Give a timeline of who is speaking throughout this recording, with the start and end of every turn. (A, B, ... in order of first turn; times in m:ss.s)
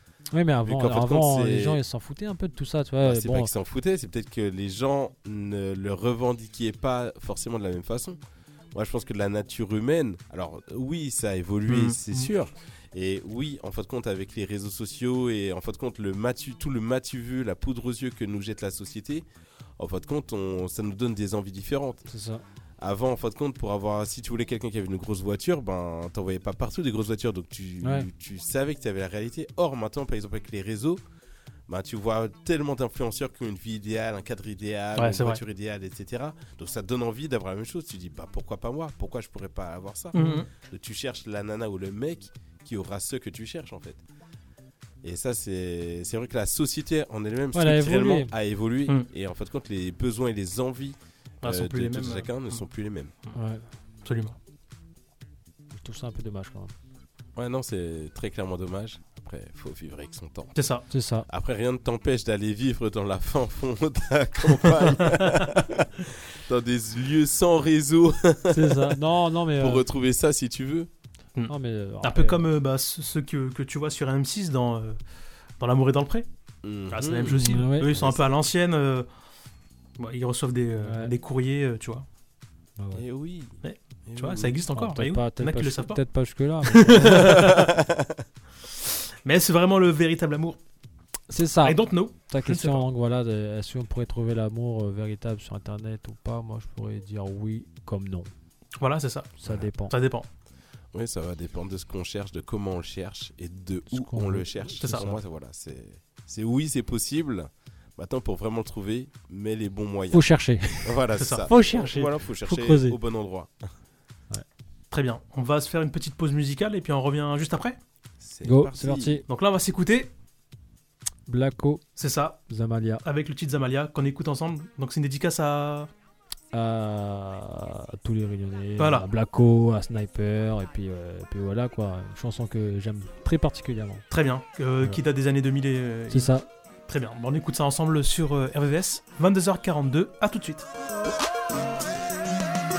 0:00.3-0:03.5 A
0:00.6-0:01.8 B
0:03.0-0:08.2 B
0:08.7-0:19.3 B
0:11.7-0:12.0 C
0:19.8-0:22.0 B
0:22.1-0:22.4 A
0:22.8-0:31.0 B
0:27.8-0:28.1 A
0:31.7-0:44.0 B
0:35.0-0:35.4 C
0:40.1-0:40.4 A
0:40.1-0:40.5 C
0:45.0-0:53.1 B
0:47.5-0:48.3 A
0:51.4-0:52.3 C
0:53.3-0:53.6 A
0:54.0-0:54.4 C
0:55.8-0:56.7 A
0:57.4-1:00.5 B
1:00.5-1:00.8 C
1:00.9-1:01.2 A
1:01.3-1:09.0 B
1:08.5-1:09.8 A
1:09.6-1:10.9 B
1:11.4-1:15.0 C
1:11.5-1:12.4 A
1:15.6-1:16.2 C
1:16.6-1:18.2 B
1:16.9-1:19.1 C
1:17.3-1:17.9 A
1:20.0-1:22.0 C
1:20.8-1:21.1 A
1:22.8-1:23.0 A
1:22.9-1:24.6 B
1:23.6-1:26.0 C
1:24.7-1:27.4 A
1:26.7-1:27.7 C
1:27.2-1:28.2 B
1:29.2-1:30.6 C
1:31.3-1:38.3 A
1:31.6-1:32.8 C
1:38.8-1:39.4 C
1:39.4-1:39.9 A
1:39.9-1:40.2 C
1:40.9-1:50.2 B
1:43.9-1:44.7 A
1:44.8-1:45.1 C
1:50.1-1:53.0 A
1:50.8-1:53.5 B
1:51.2-1:52.1 C
1:54.9-1:57.8 C
1:58.2-1:59.2 B
1:58.4-1:59.2 A
1:59.3-2:00.1 C
2:01.3-2:01.8 A
2:02.0-2:02.4 C
2:02.5-2:03.0 A
2:03.0-2:05.9 C
2:06.5-2:14.1 A
2:08.8-2:09.1 C
2:14.1-2:20.6 C
2:16.1-2:16.4 A